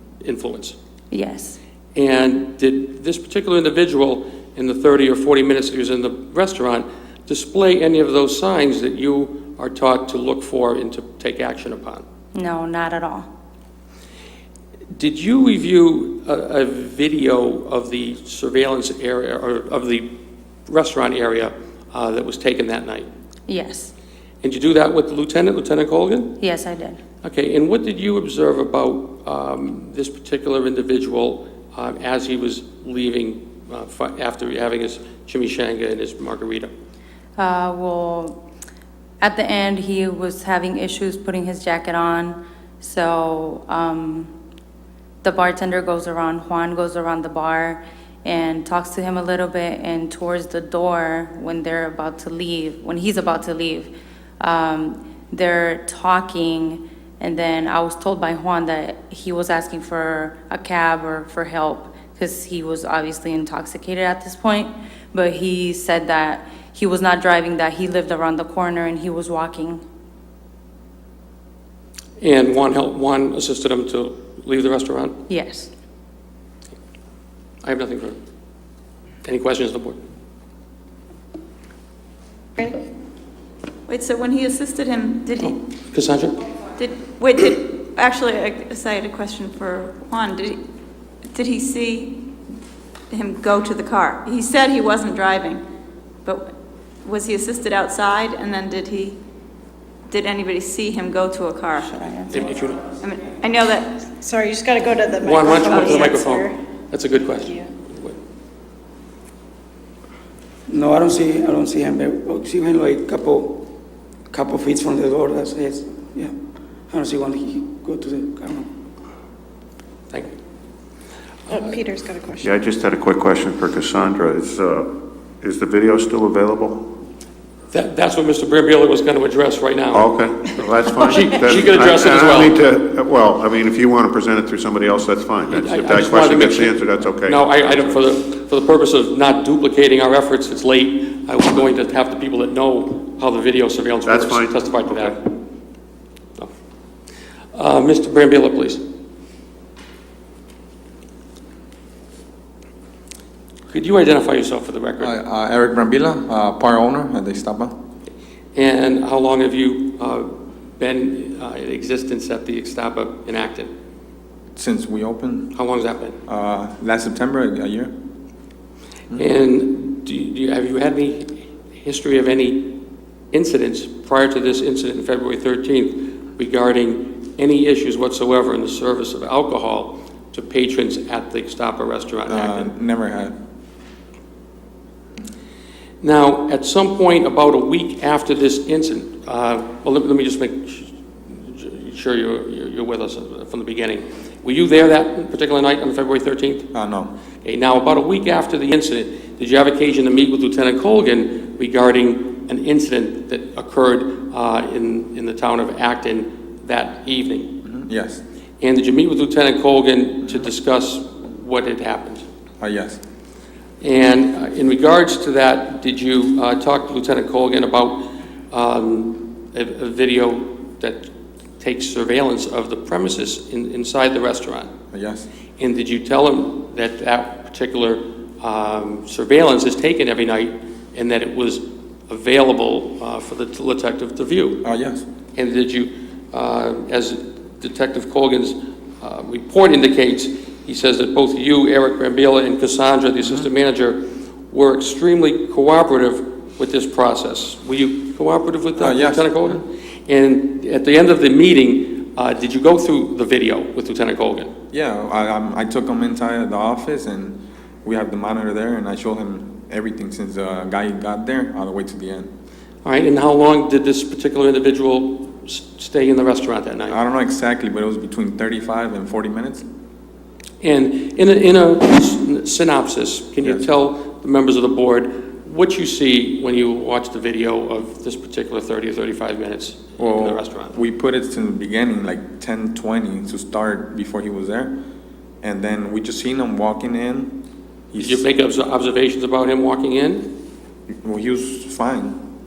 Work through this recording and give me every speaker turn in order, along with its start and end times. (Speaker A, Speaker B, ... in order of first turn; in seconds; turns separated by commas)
Speaker A: 0.2-0.8, Speaker B: 1.1-1.6, Speaker A: 1.9-12.0, Speaker B: 12.3-13.3, Speaker A: 14.9-20.1, Speaker A: 20.7-23.1, Speaker B: 23.5-23.9, Speaker A: 24.4-26.4, Speaker B: 26.4-27.0, Speaker A: 27.2-36.7, Speaker B: 37.4-38.4, Speaker B: 39.2-44.3, Speaker B: 45.2-69.8, Speaker A: 72.2-75.2, Speaker B: 75.3-75.7, Speaker A: 77.6-78.2, Speaker A: 79.2-80.0, Speaker C: 83.9-85.6, Speaker A: 85.4-86.4, Speaker C: 86.8-90.6, Speaker C: 91.3-92.2, Speaker C: 93.1-95.6, Speaker C: 96.2-96.5, Speaker C: 97.0-99.2, Speaker C: 100.1-101.9, Speaker B: 101.8-102.4, Speaker A: 102.3-102.8, Speaker C: 103.0-104.1, Speaker D: 104.2-106.5, Speaker A: 105.2-108.2, Speaker C: 105.6-106.2, Speaker D: 107.4-107.7, Speaker E: 110.7-113.7, Speaker E: 114.3-116.3, Speaker E: 116.9-118.7, Speaker D: 121.5-122.5, Speaker F: 122.4-126.8, Speaker A: 127.7-130.3, Speaker F: 129.9-138.0, Speaker A: 131.0-132.6, Speaker A: 135.5-145.3, Speaker F: 144.0-145.2, Speaker A: 147.5-148.8, Speaker A: 153.7-155.1, Speaker G: 155.0-157.7, Speaker A: 158.5-163.7, Speaker G: 164.5-165.5, Speaker A: 165.5-166.2, Speaker G: 166.2-167.9, Speaker A: 169.2-172.7, Speaker A: 173.3-182.7, Speaker G: 182.3-183.3, Speaker A: 186.0-196.7, Speaker G: 196.7-197.1, Speaker A: 197.4-207.5, Speaker G: 207.6-208.2, Speaker A: 208.6-212.2, Speaker G: 212.6-213.0, Speaker A: 213.8-224.7, Speaker G: 224.9-225.3, Speaker A: 225.6-234.6, Speaker G: 234.6-235.0, Speaker A: 235.3-254.5, Speaker G: 248.8-249.6, Speaker G: 254.7-262.3, Speaker A: 262.8-267.0, Speaker G: 266.9-269.6, Speaker A: 270.6-280.8, Speaker G: 280.0-284.7, Speaker G: 285.4-287.4, Speaker G: 287.9-288.2, Speaker A: 287.9-290.3, Speaker G: 290.9-292.2